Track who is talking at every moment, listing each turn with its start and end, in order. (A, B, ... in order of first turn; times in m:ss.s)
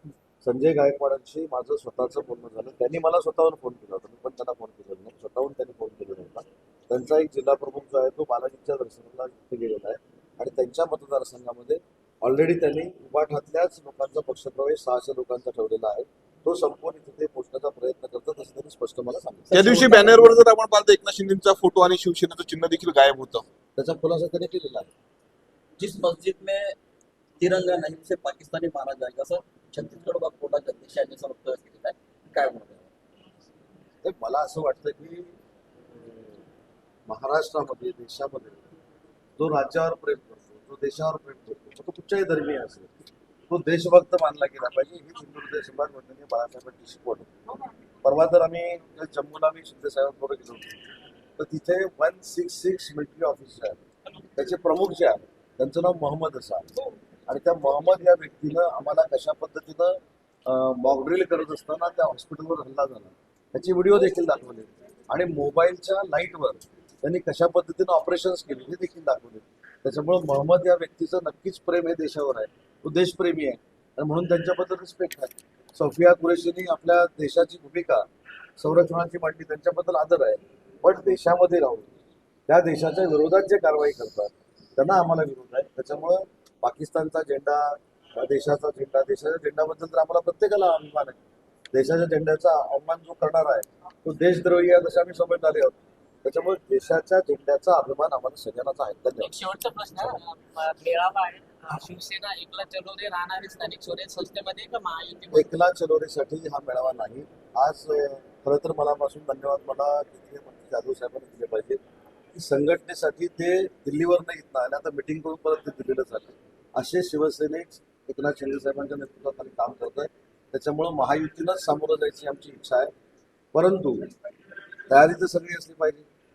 0:00.4-0:19.5 A
0:19.5-0:20.3 B
0:19.5-0:23.4 C
0:23.8-0:24.9 A
0:25.8-0:26.8 B
0:27.4-0:32.9 B
0:34.0-0:35.3 A
0:35.9-0:36.4 A
0:37.1-0:38.6 A
0:39.4-0:47.3 A
0:48.0-0:50.8 A
0:51.4-0:53.8 A
0:54.4-0:56.7 A
0:57.3-1:21.9 A
1:22.5-1:31.2 A
1:31.7-1:39.3 A
1:39.2-1:45.5 D
1:45.3-1:51.8 A
1:52.3-2:02.9 A
2:03.5-2:04.1 A
2:04.9-2:06.1 A